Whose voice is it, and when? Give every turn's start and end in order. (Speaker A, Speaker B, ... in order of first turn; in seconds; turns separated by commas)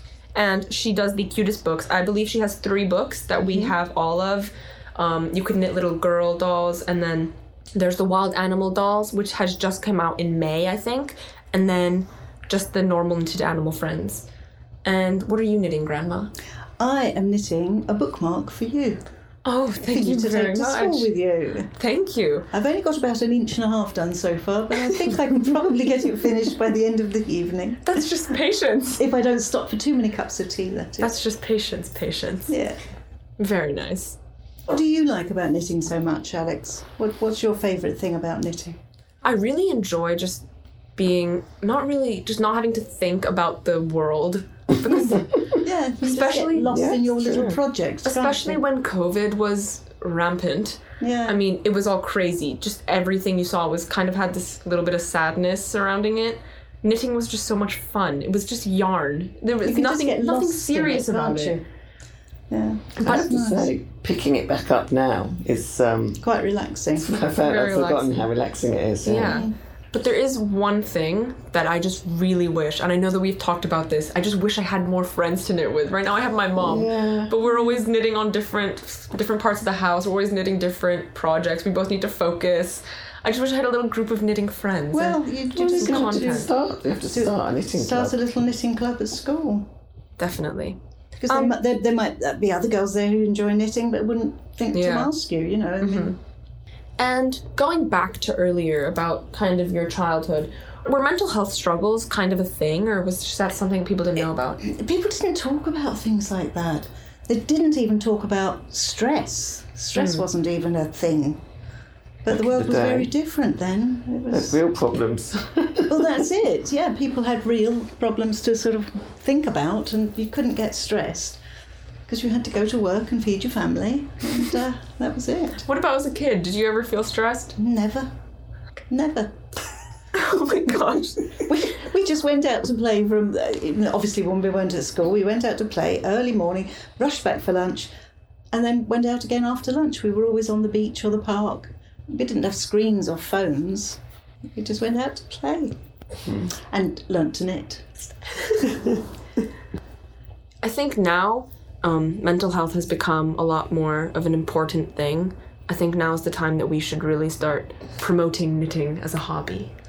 Speaker A: 0.3-14.3, Speaker A: 14.8-16.3, Speaker B: 16.8-19.0, Speaker A: 19.4-21.1, Speaker B: 19.8-21.7, Speaker A: 21.7-22.5, Speaker B: 22.5-28.1, Speaker A: 27.8-29.0, Speaker B: 29.0-31.2, Speaker A: 31.0-32.5, Speaker B: 32.5-32.8, Speaker A: 33.4-34.2, Speaker B: 34.7-38.8, Speaker A: 39.2-40.4, Speaker A: 41.0-45.5, Speaker B: 45.6-48.6, Speaker A: 46.0-46.7, Speaker C: 46.7-47.6, Speaker A: 48.0-61.6, Speaker B: 51.0-51.4, Speaker B: 59.6-61.6, Speaker B: 62.5-63.7, Speaker C: 63.0-66.3, Speaker B: 66.2-67.1, Speaker C: 67.0-69.4, Speaker A: 67.4-68.3, Speaker A: 69.0-86.5, Speaker C: 76.6-77.3, Speaker B: 84.9-86.5, Speaker C: 85.7-88.2, Speaker B: 87.1-89.7, Speaker A: 90.2-91.6, Speaker B: 91.2-96.2, Speaker A: 94.7-95.1, Speaker A: 95.8-96.2, Speaker A: 97.0-104.6, Speaker B: 104.6-111.4, Speaker A: 109.9-110.2, Speaker B: 112.2-114.6, Speaker C: 112.3-113.1, Speaker C: 114.3-116.1, Speaker B: 115.9-121.4, Speaker B: 122.1-125.6, Speaker A: 125.6-127.5, Speaker B: 127.6-128.1, Speaker B: 128.9-129.3, Speaker A: 130.1-131.5, Speaker B: 131.4-137.9, Speaker B: 138.5-144.0, Speaker B: 144.5-145.7, Speaker B: 146.7-147.9, Speaker A: 150.6-159.7